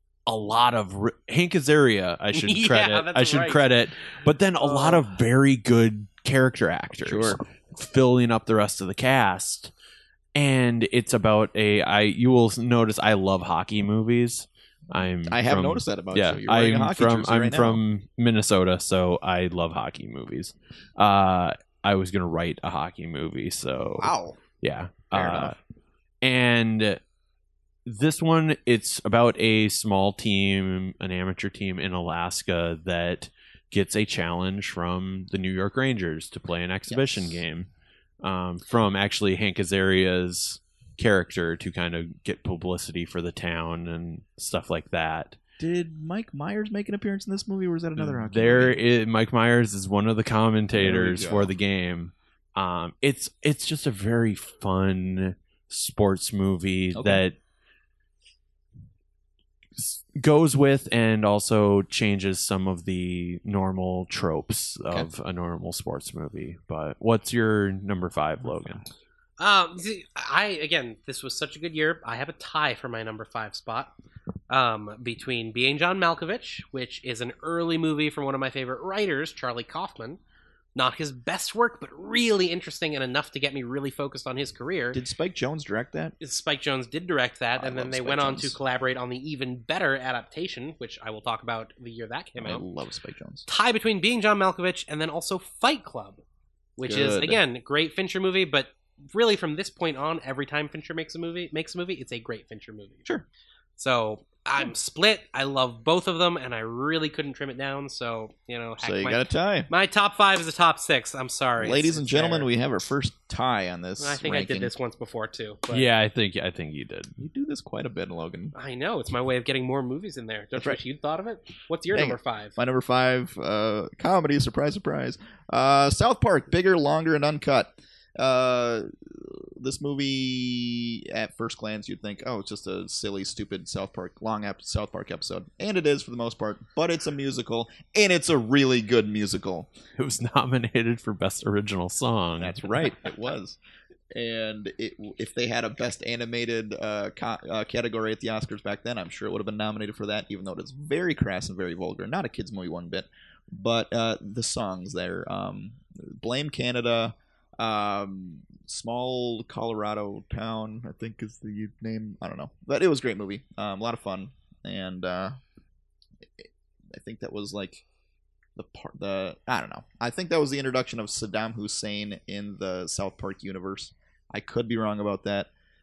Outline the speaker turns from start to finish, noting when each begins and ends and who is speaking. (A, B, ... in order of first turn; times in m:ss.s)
0:00.3-0:09.7 A
0:02.3-0:05.0 B
0:07.0-0:07.4 C
0:10.4-0:25.6 A
0:15.3-0:17.8 C
0:24.0-0:24.4 C
0:25.1-0:25.6 C
0:26.2-0:27.0 A
0:27.9-0:37.7 A
0:36.9-0:37.4 C
0:38.2-0:45.4 A
0:45.6-0:48.8 C
0:48.0-0:57.4 A
0:50.7-0:51.5 C
0:56.9-0:57.2 C
0:59.8-1:08.8 A
1:08.4-1:08.8 C
1:09.4-1:13.9 B
1:14.5-1:20.2 B
1:20.8-1:25.0 B
1:24.9-1:26.2 C
1:26.2-1:32.6 B
1:27.6-1:28.6 C
1:32.4-1:33.5 C
1:33.5-1:36.2 B
1:36.8-1:43.1 B
1:36.8-1:37.4 C
1:43.8-1:52.5 B
1:48.8-1:49.7 C
1:51.6-1:54.7 C
1:54.0-1:55.9 B
1:55.7-1:57.1 A
1:57.2-1:58.5 C
1:58.5-2:02.6 B
2:01.9-2:19.7 C
2:20.0-2:22.9 A
2:22.4-2:23.6 C
2:24.1-2:45.4 C
2:46.2-2:47.8 C
2:48.6-2:55.5 C